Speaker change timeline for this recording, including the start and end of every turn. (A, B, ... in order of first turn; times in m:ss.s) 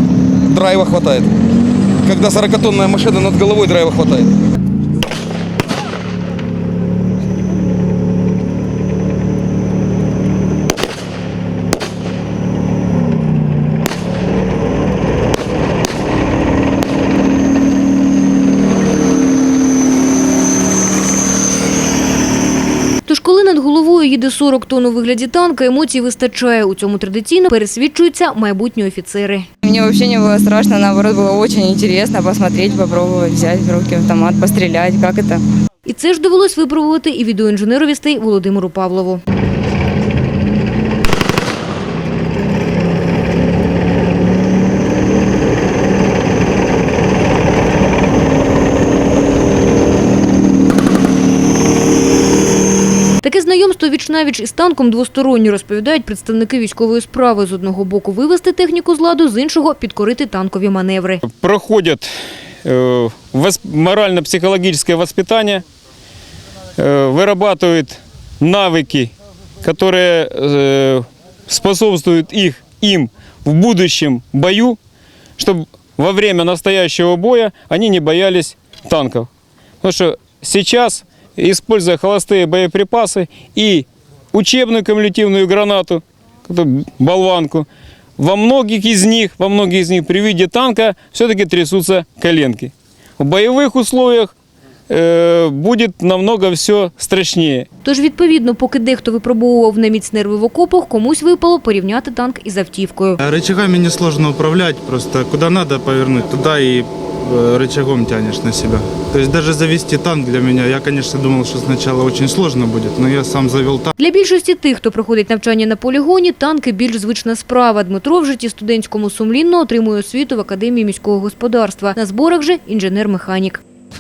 0:00.5-0:01.3 A
0:02.0-0:04.3 A
0:23.1-0:29.5 B
0:29.7-0:35.4 C
0:35.8-0:39.2 B
0:53.2-1:01.2 B
1:01.3-1:02.1 D
1:02.6-1:05.6 D
1:06.8-1:09.1 D
1:09.6-1:14.8 D
1:15.4-1:19.3 D
1:19.8-1:27.7 D
1:28.2-1:34.3 D
1:34.9-1:37.7 D
1:37.8-1:43.2 B
1:43.2-1:53.9 E
1:54.0-2:03.6 B